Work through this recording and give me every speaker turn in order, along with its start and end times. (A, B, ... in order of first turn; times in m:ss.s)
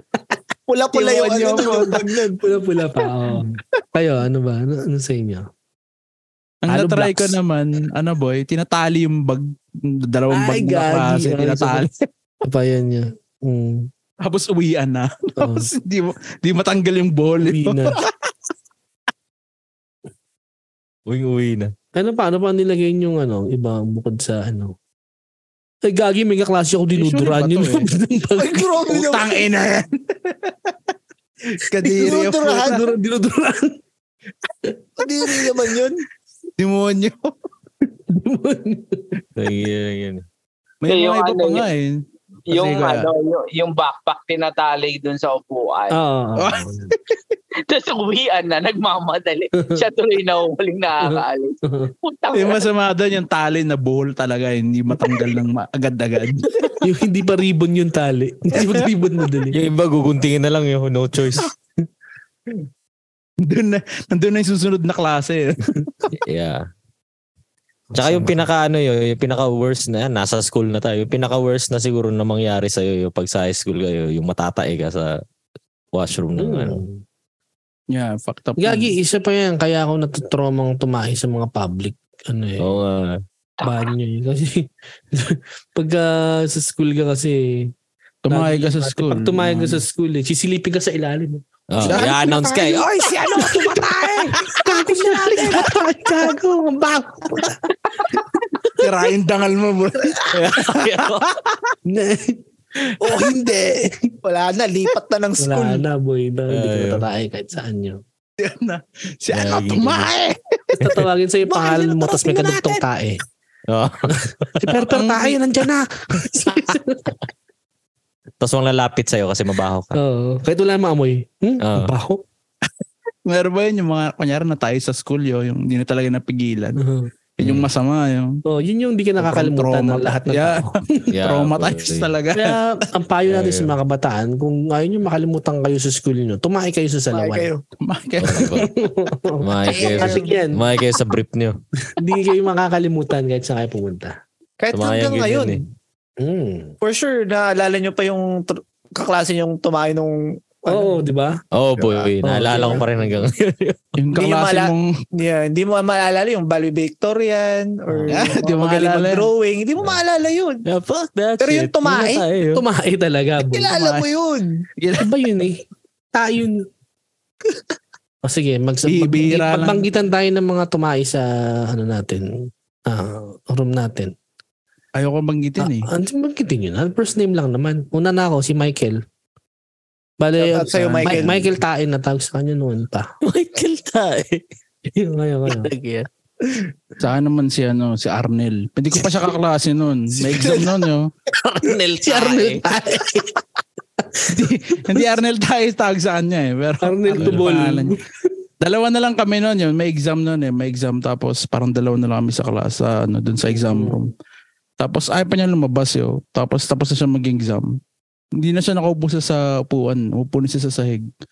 0:00.7-0:02.4 A
0:01.0-0:01.9 B
0:01.3-0:05.5 C
0:06.6-0:12.0 B
0:06.7-0:07.4 C
0:10.3-0:11.9 C
0:12.4-0:13.9 C
0:14.2-0:18.0 B
0:15.4-0:15.7 C
0:17.4-0:18.0 C
0:21.1-0:21.7 D
0:21.9-0:24.8 C
0:25.8-0:29.1 C
0:26.9-0:27.9 B
0:28.4-0:29.4 A
0:28.9-0:30.6 B
0:31.5-0:32.8 B
0:31.8-0:33.8 C
0:32.0-0:32.8 A
0:34.6-0:35.8 C
0:35.0-0:36.0 A
0:36.6-0:37.3 B
0:38.1-0:39.2 C
0:39.4-0:40.2 D
0:40.8-0:43.1 B
0:40.9-0:41.7 E
0:42.5-0:46.0 E
0:45.9-0:46.9 C
0:46.4-0:47.2 B
0:47.6-0:52.7 E
0:51.0-0:51.9 C
0:52.3-0:56.8 B
0:56.8-0:59.6 C
0:59.5-1:01.5 D
1:03.4-1:05.9 B
1:06.2-1:06.6 D
1:07.9-1:08.5 C
1:08.0-1:15.2 D
1:15.9-1:16.8 D
1:16.4-1:17.0 C
1:17.9-1:19.0 B
1:18.6-1:22.8 C
1:22.6-1:23.2 D
1:23.6-1:27.7 C
1:28.2-1:29.8 B
1:28.3-1:32.6 C
1:31.7-1:32.9 D
1:31.8-1:32.4 B
1:32.4-1:34.3 A
1:33.3-1:37.7 C
1:34.3-1:36.2 B
1:38.7-1:41.5 B
1:40.3-1:41.3 D
1:41.9-1:42.4 C
1:43.0-1:44.2 C
1:44.2-1:45.8 A
1:45.4-1:48.0 C
1:46.5-1:47.0 D
1:48.4-1:51.0 B
1:49.3-1:50.1 D
1:50.8-1:53.2 C
1:51.6-1:52.8 B
1:53.7-1:54.8 D
1:54.1-1:57.2 C
1:54.9-1:55.4 B
1:58.4-2:00.0 D
1:59.9-2:02.2 C
2:01.6-2:01.9 D
2:03.3-2:06.8 B
2:06.8-2:07.1 C
2:07.4-2:08.4 B
2:07.4-2:07.7 D
2:08.5-2:11.1 C
2:09.2-2:12.6 B
2:11.1-2:12.1 D
2:12.4-2:17.5 C
2:13.3-2:13.7 D
2:17.1-2:17.6 A
2:17.8-2:18.6 B
2:18.2-2:18.7 D
2:18.4-2:20.8 C
2:19.4-2:21.6 D
2:19.7-2:20.3 A
2:21.9-2:24.2 C
2:24.6-2:25.6 A
2:24.7-2:25.6 D
2:26.2-2:26.8 C
2:26.8-2:30.9 A
2:30.7-2:31.4 C
2:31.5-2:33.8 D
2:32.2-2:33.2 C
2:34.0-2:34.9 B
2:34.2-2:40.6 A
2:37.9-2:38.4 C
2:38.1-2:39.3 B
2:40.7-2:42.6 D
2:41.4-2:42.2 A
2:42.5-2:43.8 C
2:43.4-2:44.5 A
2:43.7-2:44.1 B
2:44.8-2:45.2 B
2:45.0-2:46.7 C
2:48.2-2:54.1 C
2:48.8-2:49.9 B
2:55.0-2:55.9 B
2:55.6-2:59.0 C
3:00.2-3:03.1 C
3:00.4-3:01.3 A
3:01.0-3:01.4 B
3:03.2-3:04.4 D
3:05.0-3:05.7 C
3:05.5-3:06.1 D
3:07.0-3:11.1 B
3:11.3-3:12.7 D
3:12.0-3:13.4 C
3:14.0-3:15.0 C
3:14.3-3:18.0 B
3:16.8-3:18.3 C
3:17.2-3:17.5 D
3:18.6-3:24.1 B
3:23.5-3:24.1 C
3:24.8-3:27.8 B
3:28.4-3:31.1 B